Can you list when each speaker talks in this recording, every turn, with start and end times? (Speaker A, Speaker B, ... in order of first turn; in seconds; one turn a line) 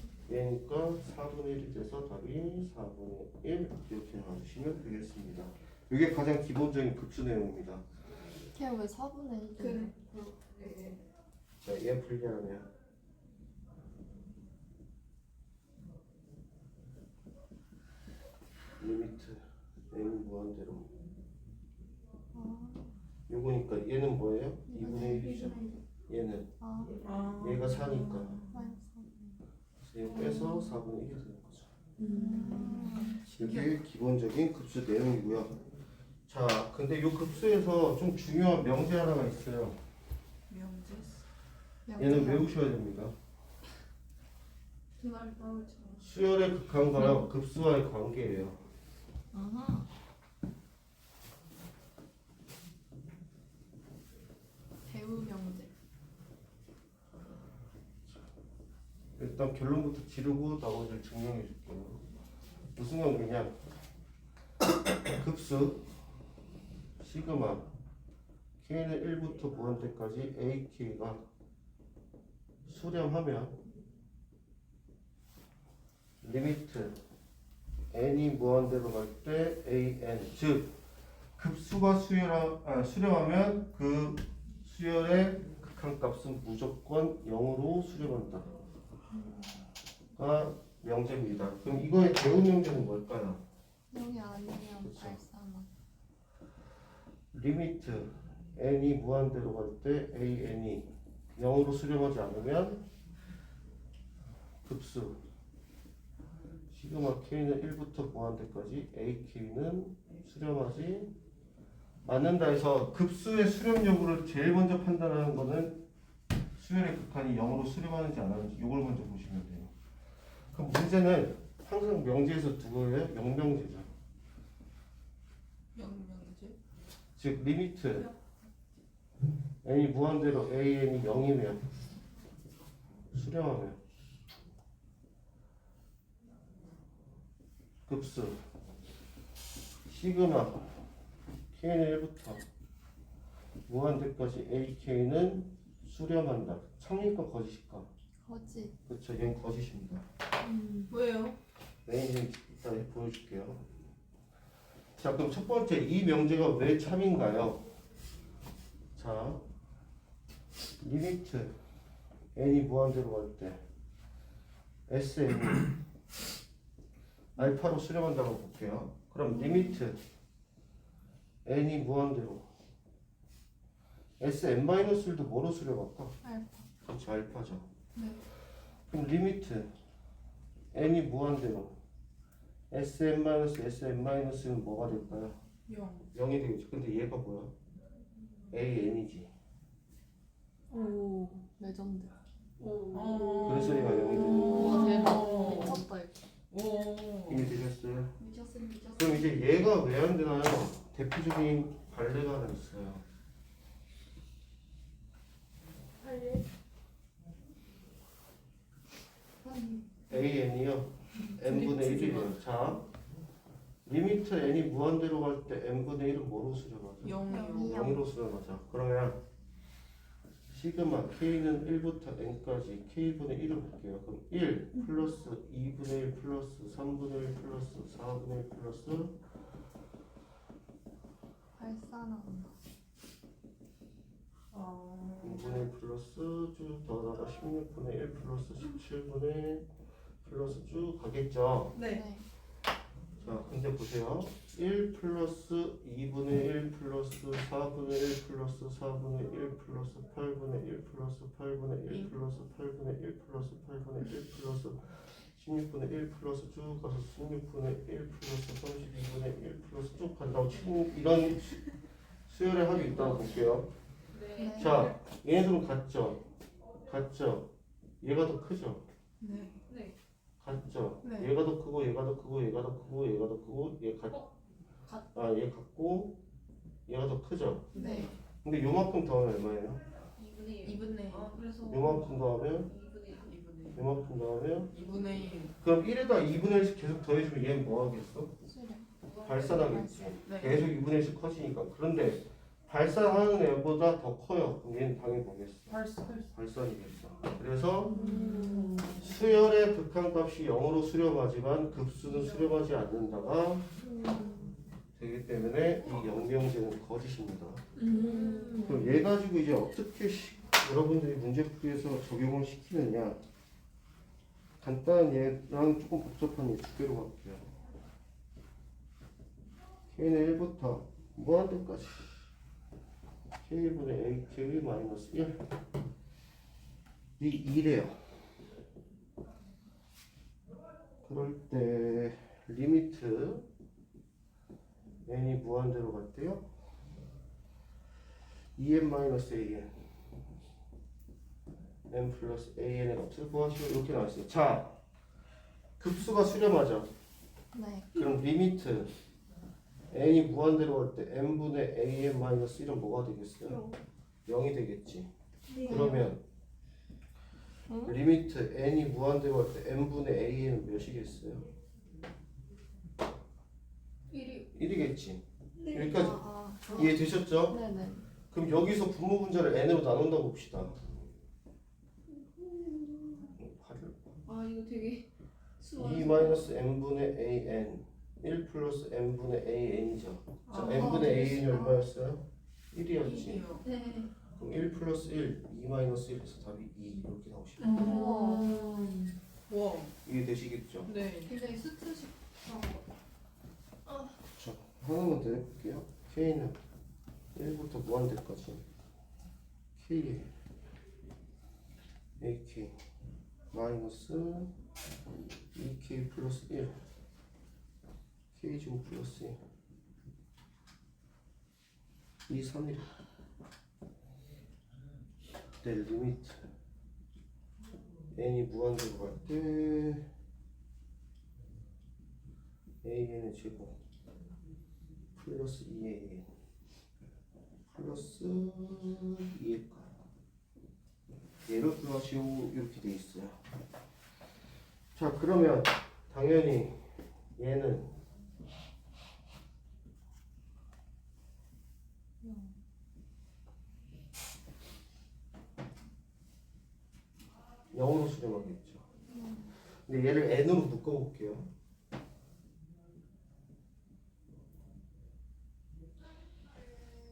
Speaker A: 0.3-7.8
Speaker B: 8.5-9.9
Speaker C: 9.6-11.0
Speaker A: 11.6-12.7
Speaker A: 18.8-20.9
Speaker B: 22.3-22.9
Speaker A: 23.3-25.6
Speaker B: 24.7-25.3
Speaker C: 24.8-25.8
Speaker A: 26.1-26.5
Speaker B: 26.6-27.0
Speaker D: 27.0-28.6
Speaker A: 27.4-28.4
Speaker B: 28.5-29.4
Speaker A: 29.8-31.7
Speaker B: 30.1-30.7
Speaker B: 32.0-33.2
Speaker C: 32.1-33.0
Speaker D: 33.0-33.7
Speaker A: 33.3-35.5
Speaker A: 36.3-39.8
Speaker D: 40.5-41.2
Speaker B: 41.9-42.5
Speaker A: 42.0-43.1
Speaker C: 45.0-46.0
Speaker A: 46.0-48.6
Speaker B: 49.3-49.9
Speaker B: 54.9-55.7
Speaker A: 59.1-62.0
Speaker A: 62.8-63.5
Speaker A: 65.1-65.8
Speaker A: 67.0-67.7
Speaker A: 68.6-71.2
Speaker A: 72.7-73.6
Speaker A: 76.2-77.0
Speaker A: 77.9-80.8
Speaker A: 81.3-88.5
Speaker B: 89.1-89.7
Speaker A: 90.2-93.4
Speaker B: 93.9-95.7
Speaker A: 94.8-95.2
Speaker A: 97.3-102.8
Speaker A: 104.6-105.2
Speaker A: 106.7-111.1
Speaker A: 112.0-115.8
Speaker A: 116.6-119.7
Speaker A: 120.5-123.9
Speaker D: 125.7-126.5
Speaker A: 127.2-128.1
Speaker A: 129.6-131.6
Speaker A: 133.1-133.8
Speaker A: 137.8-138.4
Speaker A: 139.9-140.8
Speaker A: 141.5-142.4
Speaker A: 143.7-147.9
Speaker B: 148.2-148.8
Speaker A: 148.9-150.1
Speaker B: 150.4-150.9
Speaker D: 150.9-151.4
Speaker A: 151.8-153.6
Speaker A: 155.0-157.6
Speaker A: 158.9-159.4
Speaker A: 160.8-161.6
Speaker A: 162.3-163.6
Speaker A: 164.9-165.7
Speaker A: 167.3-170.0
Speaker B: 169.3-169.8
Speaker A: 171.4-172.5
Speaker A: 174.2-176.2
Speaker B: 176.2-176.7
Speaker A: 176.8-177.7
Speaker A: 178.9-179.7
Speaker A: 180.7-181.8
Speaker A: 182.7-185.4
Speaker D: 185.7-186.1
Speaker A: 186.1-187.5
Speaker A: 188.5-189.3
Speaker B: 190.7-192.1
Speaker C: 192.6-193.7
Speaker D: 192.9-195.8
Speaker A: 193.4-194.9
Speaker B: 194.3-196.2
Speaker C: 194.5-195.7
Speaker D: 196.5-197.5
Speaker A: 197.3-198.1
Speaker C: 198.2-199.3
Speaker A: 198.9-203.0
Speaker C: 206.0-206.4
Speaker B: 209.4-209.8
Speaker A: 210.1-212.8
Speaker D: 211.4-212.3
Speaker A: 213.8-219.2
Speaker D: 217.0-217.9
Speaker B: 217.3-218.0
Speaker C: 217.3-217.7
Speaker A: 220.5-229.2
Speaker B: 231.6-232.5
Speaker D: 234.5-235.6
Speaker A: 235.2-239.7
Speaker A: 240.2-241.8
Speaker D: 241.7-242.0
Speaker B: 241.8-242.2
Speaker A: 243.2-261.6
Speaker A: 262.3-263.7
Speaker C: 264.1-264.9
Speaker B: 264.3-264.9
Speaker A: 264.6-266.2
Speaker A: 266.9-267.5
Speaker A: 268.0-268.8
Speaker D: 269.2-269.6
Speaker C: 269.7-269.9
Speaker A: 270.4-274.2
Speaker D: 271.0-271.3
Speaker A: 275.1-276.2
Speaker A: 276.9-277.7
Speaker D: 277.7-278.1
Speaker B: 277.7-278.1
Speaker C: 277.8-278.0
Speaker A: 278.4-279.8
Speaker C: 280.1-283.7
Speaker D: 280.6-281.4
Speaker A: 281.7-282.7
Speaker D: 283.2-283.8
Speaker A: 283.7-284.7
Speaker D: 284.7-285.5
Speaker A: 285.6-288.3
Speaker B: 288.4-288.9
Speaker C: 289.0-289.7
Speaker A: 289.2-298.0
Speaker B: 289.5-290.1
Speaker D: 290.2-290.7
Speaker D: 295.7-296.3
Speaker D: 297.9-299.0
Speaker B: 297.9-298.8
Speaker A: 299.0-303.7
Speaker B: 303.8-304.6
Speaker A: 304.9-307.6
Speaker D: 305.8-306.1
Speaker B: 307.8-308.9
Speaker D: 307.8-308.8
Speaker C: 308.0-308.6
Speaker A: 308.6-313.2
Speaker A: 314.6-317.5
Speaker A: 319.9-322.3
Speaker A: 323.4-325.4
Speaker A: 327.2-328.0
Speaker A: 331.0-333.5
Speaker A: 335.1-336.5
Speaker A: 338.6-339.8
Speaker A: 341.9-344.7
Speaker A: 345.8-346.9
Speaker B: 347.5-348.1
Speaker A: 347.9-348.9
Speaker A: 349.9-353.6
Speaker C: 353.4-353.8
Speaker A: 354.2-355.1
Speaker C: 355.5-356.1
Speaker A: 355.6-356.2
Speaker B: 355.6-356.0
Speaker B: 357.7-358.0
Speaker A: 357.8-361.4
Speaker C: 364.1-364.5
Speaker A: 364.5-367.6
Speaker C: 365.5-367.0
Speaker B: 365.9-368.1
Speaker A: 368.3-370.8
Speaker C: 372.1-373.4
Speaker A: 373.4-374.2
Speaker C: 374.2-375.1
Speaker C: 375.6-376.5
Speaker A: 375.8-383.4
Speaker D: 380.5-381.1
Speaker C: 380.6-381.8
Speaker D: 383.0-383.6
Speaker C: 383.6-384.1
Speaker A: 384.4-387.7
Speaker D: 387.6-389.9
Speaker B: 387.6-388.6
Speaker C: 387.6-388.6
Speaker A: 390.0-390.9
Speaker D: 390.9-391.3
Speaker C: 391.2-392.8
Speaker A: 394.3-396.6
Speaker A: 397.3-398.6
Speaker A: 399.8-400.3
Speaker A: 402.2-402.8
Speaker A: 403.5-404.5
Speaker A: 405.5-406.8
Speaker A: 408.3-409.4
Speaker A: 412.3-412.9
Speaker A: 415.6-416.5
Speaker A: 418.1-420.1
Speaker A: 422.8-423.8
Speaker A: 425.1-426.3
Speaker A: 427.7-429.9
Speaker A: 431.4-433.4
Speaker A: 434.9-437.9
Speaker B: 442.2-442.6
Speaker A: 447.7-448.8
Speaker B: 449.1-449.5
Speaker A: 449.9-451.5